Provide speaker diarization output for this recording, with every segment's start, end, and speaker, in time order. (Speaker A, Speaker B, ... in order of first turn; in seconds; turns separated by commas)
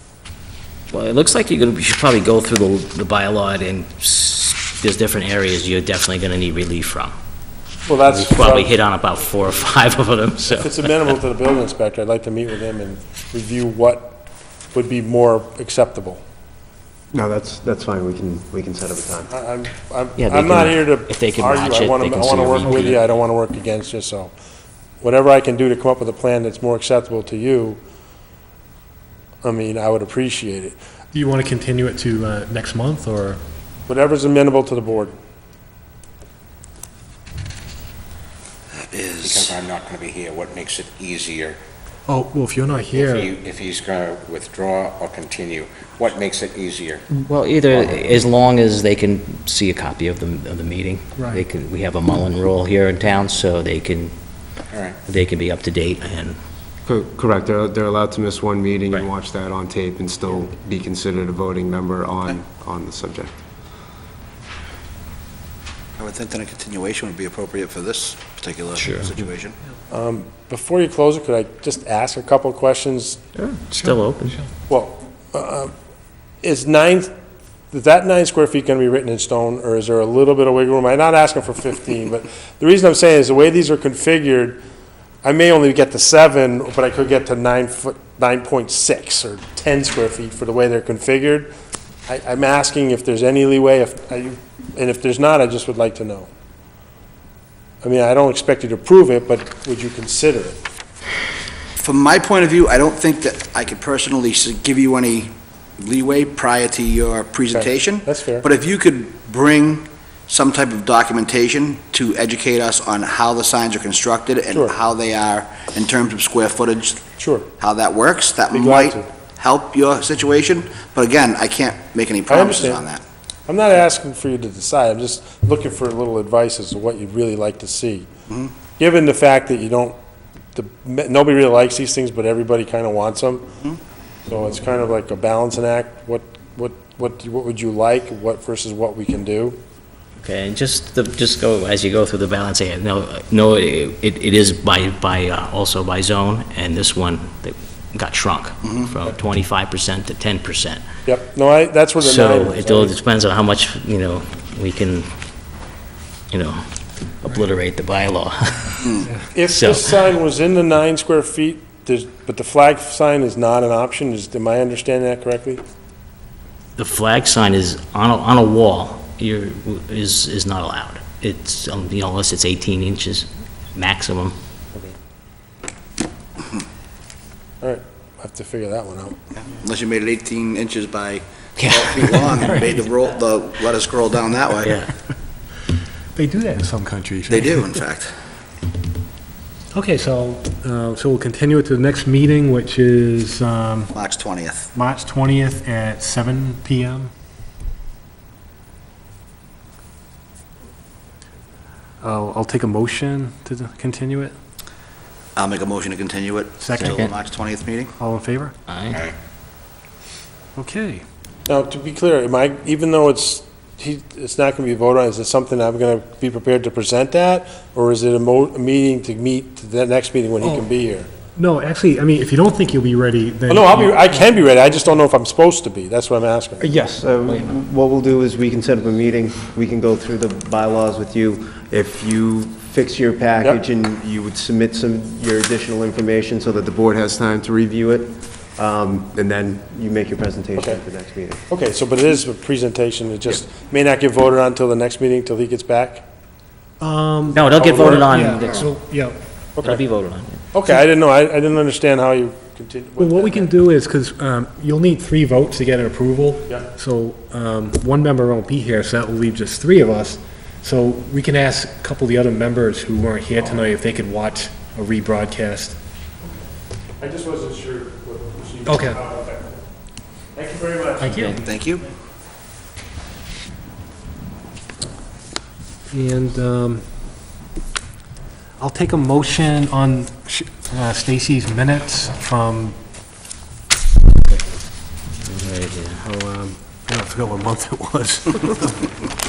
Speaker A: 0.9-7.1, Speaker B: 7.8-8.8, Speaker A: 8.0-10.8, Speaker B: 10.5-16.2, Speaker C: 17.1-19.3, Speaker B: 19.3-24.3, Speaker A: 20.2-23.0, Speaker B: 25.0-27.8, Speaker B: 29.4-30.8, Speaker D: 31.1-33.4, Speaker B: 33.9-35.2, Speaker E: 38.7-39.5, Speaker F: 39.2-41.6, Speaker D: 42.1-43.3, Speaker F: 42.9-47.0, Speaker A: 47.1-54.1, Speaker D: 51.2-51.4, Speaker F: 54.7-55.0, Speaker A: 55.0-56.4, Speaker C: 56.8-63.4, Speaker E: 66.0-69.5, Speaker A: 68.8-69.1, Speaker B: 69.9-73.2, Speaker A: 73.4-74.4, Speaker B: 74.7-75.7, Speaker B: 76.4-77.1, Speaker B: 77.7-84.6, Speaker B: 85.2-91.5, Speaker B: 92.1-96.3, Speaker B: 97.8-100.6, Speaker E: 101.8-117.0, Speaker B: 107.5-108.5, Speaker B: 114.5-114.8, Speaker B: 117.2-117.5, Speaker E: 117.6-123.0, Speaker B: 118.5-119.1, Speaker B: 122.3-122.9, Speaker B: 123.5-128.1, Speaker B: 128.8-130.0, Speaker B: 130.6-133.5, Speaker B: 134.2-139.6, Speaker A: 140.2-150.8, Speaker B: 151.1-152.9, Speaker A: 152.0-155.1, Speaker A: 156.3-156.6, Speaker A: 157.2-159.0, Speaker B: 159.3-165.6, Speaker A: 159.5-159.9, Speaker A: 166.8-174.3, Speaker B: 177.6-179.2, Speaker E: 179.4-184.8, Speaker A: 181.6-182.6, Speaker A: 184.6-184.9, Speaker D: 186.2-187.8, Speaker E: 187.3-188.1, Speaker D: 189.7-193.9, Speaker E: 193.9-194.7, Speaker D: 194.8-197.1, Speaker D: 202.0-204.3, Speaker E: 205.4-207.9, Speaker D: 206.6-207.1, Speaker A: 206.8-207.1, Speaker D: 208.0-208.5, Speaker A: 208.7-209.0, Speaker D: 210.6-211.0, Speaker B: 211.5-221.1, Speaker D: 221.4-224.5, Speaker B: 223.5-226.7, Speaker C: 226.6-241.4, Speaker B: 241.5-246.0, Speaker D: 246.8-249.2, Speaker A: 247.3-248.7, Speaker B: 247.6-248.1, Speaker A: 249.6-250.4, Speaker B: 250.5-253.5, Speaker D: 253.0-265.8, Speaker B: 267.0-269.6, Speaker D: 268.6-269.0, Speaker B: 270.3-271.3, Speaker D: 271.0-271.4, Speaker E: 271.4-271.8, Speaker D: 275.9-276.8, Speaker D: 278.6-282.8, Speaker A: 285.2-286.0, Speaker D: 286.0-288.9